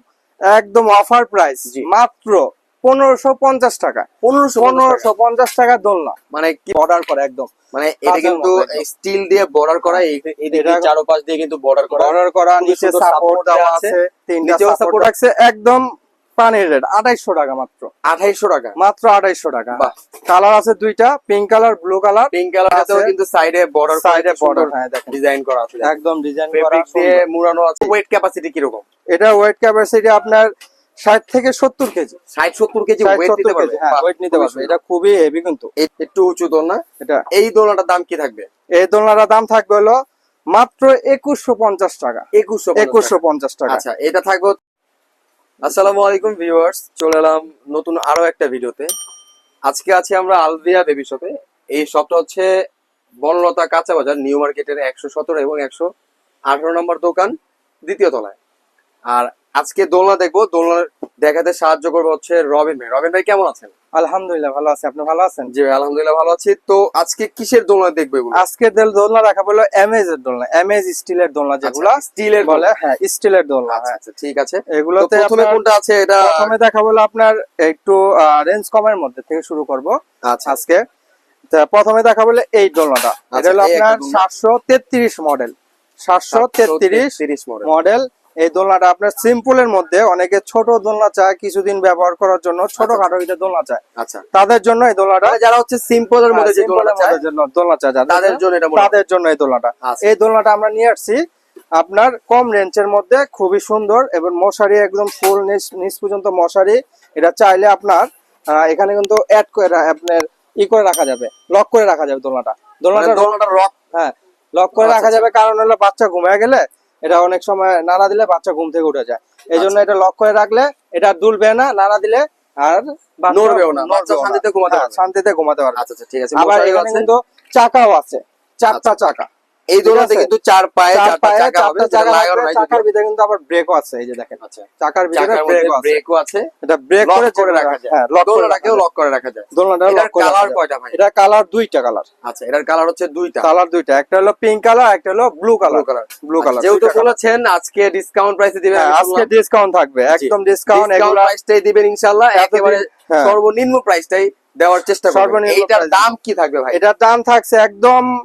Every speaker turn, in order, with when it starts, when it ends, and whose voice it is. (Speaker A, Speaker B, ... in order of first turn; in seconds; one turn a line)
Speaker A: 0.5-4.1
Speaker B: 4.2-5.1
Speaker A: 4.6-6.2
Speaker B: 6.3-6.8
Speaker A: 6.7-7.5
Speaker B: 7.7-15.1
Speaker A: 8.1-8.8
Speaker A: 10.5-10.9
Speaker A: 11.9-15.8
Speaker A: 16.4-17.9
Speaker B: 18.1-18.8
Speaker A: 18.8-23.1
Speaker B: 22.3-25.9
Speaker A: 23.9-25.1
Speaker A: 25.8-27.2
Speaker B: 26.5-28.9
Speaker A: 29.1-30.5
Speaker A: 31.1-32.2
Speaker B: 32.3-34.7
Speaker A: 33.0-35.7
Speaker B: 35.8-38.5
Speaker A: 38.8-40.0
Speaker A: 40.5-43.8
Speaker B: 42.3-43.2
Speaker B: 43.7-44.6
Speaker B: 45.6-48.9
Speaker B: 49.7-52.5
Speaker B: 53.2-55.9
Speaker B: 56.5-57.3
Speaker B: 57.9-58.4
Speaker B: 59.1-63.7
Speaker A: 64.0-65.5
Speaker B: 65.5-68.4
Speaker A: 68.3-74.0
Speaker B: 71.6-72.7
Speaker B: 73.7-76.5
Speaker A: 74.7-75.6
Speaker A: 76.2-80.0
Speaker B: 80.2-80.5
Speaker A: 80.5-80.8
Speaker A: 81.5-85.5
Speaker B: 83.3-84.2
Speaker A: 86.1-93.8
Speaker B: 86.3-87.7
Speaker B: 92.8-93.1
Speaker B: 94.0-94.2
Speaker A: 94.3-95.4
Speaker B: 95.2-97.2
Speaker A: 96.3-101.2
Speaker B: 98.1-99.0
Speaker A: 101.8-113.3
Speaker B: 113.0-113.7
Speaker A: 113.9-125.8
Speaker B: 114.8-115.3
Speaker B: 119.5-119.8
Speaker B: 123.3-125.0
Speaker B: 125.8-127.1
Speaker A: 126.3-129.3
Speaker B: 128.7-129.1
Speaker B: 129.7-132.8
Speaker A: 129.8-130.3
Speaker A: 130.9-136.0
Speaker B: 134.4-136.5
Speaker A: 136.6-138.8
Speaker B: 137.0-141.0
Speaker A: 139.5-142.1
Speaker B: 142.2-143.5
Speaker A: 143.4-147.1
Speaker B: 145.7-149.3
Speaker A: 148.7-151.3
Speaker B: 150.1-156.8
Speaker A: 152.3-153.3
Speaker A: 155.1-156.1
Speaker A: 156.7-158.1